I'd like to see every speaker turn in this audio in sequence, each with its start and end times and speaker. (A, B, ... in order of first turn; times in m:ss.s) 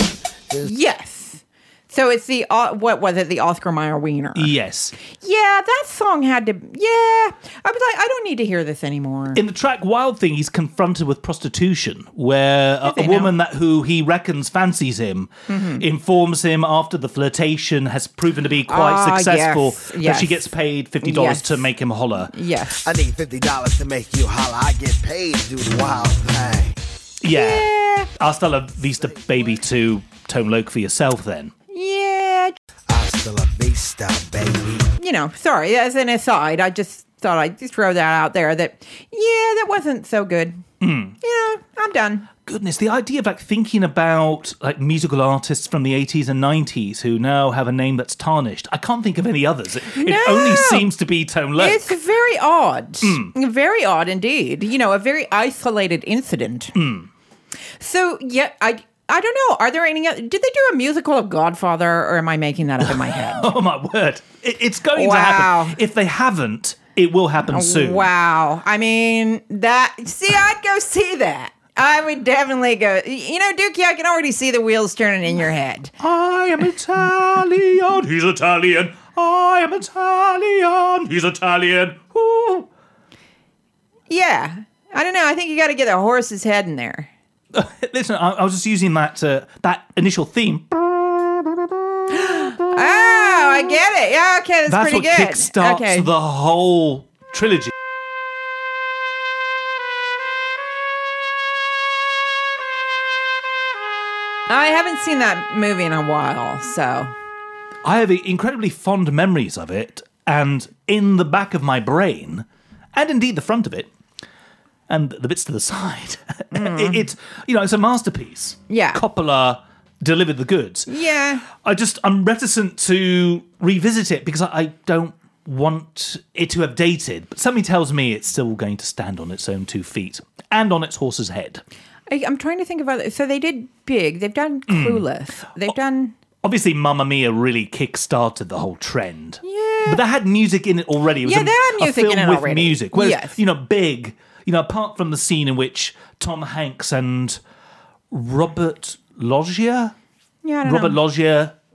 0:00.6-0:04.5 A
0:04.4-0:04.9 B
0:05.1-0:09.4 A
0:09.4-0:22.3 B
0:12.8-0:13.3 A
0:15.5-0:15.8 A
0:18.7-0:20.4 A
0:21.0-0:21.7 A
0:22.3-0:22.8 A
0:22.8-0:26.8 C
0:27.2-0:31.5 B
0:27.3-0:28.1 A
0:31.7-0:32.6 A
0:32.9-0:34.9 C
0:35.0-0:40.6 A
0:40.8-0:41.2 B
0:41.2-0:42.3 A
0:42.5-0:52.0 B
0:49.9-0:50.9 A
0:51.6-0:56.7 A
0:53.0-0:53.3 B
0:56.8-0:57.1 B
0:57.8-1:03.5 A
1:02.8-1:08.1 B
1:04.9-1:05.8 A
1:07.5-1:15.9 A
1:16.0-1:22.7 B
1:24.1-1:27.1 A
1:27.5-1:31.7 B
1:32.1-1:36.1 A
1:34.7-1:37.7 B
1:44.5-1:47.1 A
1:47.8-1:53.9 B
1:54.9-2:00.9 B
1:56.5-1:57.1 A
1:58.7-1:59.0 A
2:00.9-2:01.4 A
2:01.5-2:11.6 B
2:12.1-2:16.2 A
2:14.7-2:15.1 B
2:16.4-2:27.4 B
2:19.4-2:20.0 A
2:21.2-2:23.4 A
2:28.1-2:30.0 B
2:30.4-2:31.0 A
2:30.6-2:31.6 B